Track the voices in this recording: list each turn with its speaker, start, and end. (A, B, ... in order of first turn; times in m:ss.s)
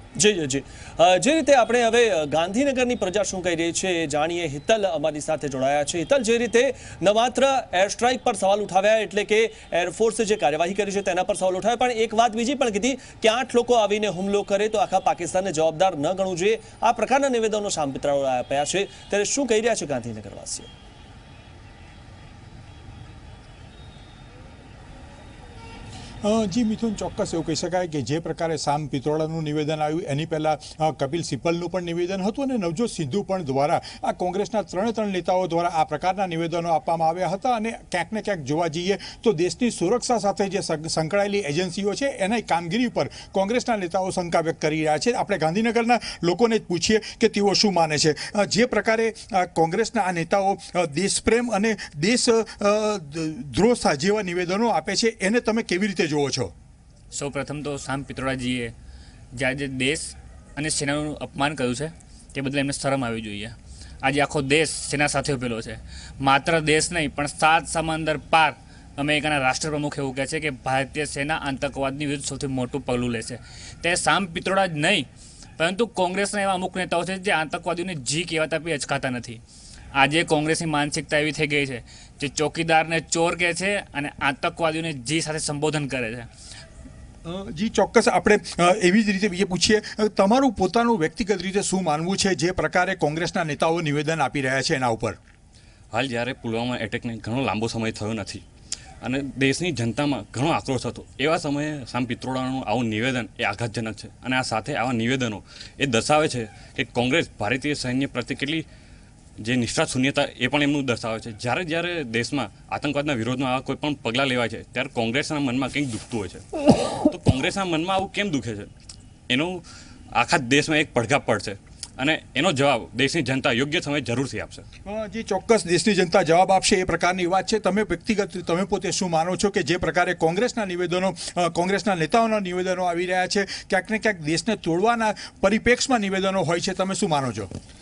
0:00.2-0:20.7 A
0:26.2-0:56.5 B
0:57.1-0:58.7 C
0:59.3-1:19.4 C
1:19.9-1:26.3 C
1:27.2-1:35.2 B
1:35.9-1:38.4 D
1:39.0-1:48.6 D
1:49.4-1:58.7 D
1:59.3-2:04.6 D
2:04.8-2:17.5 B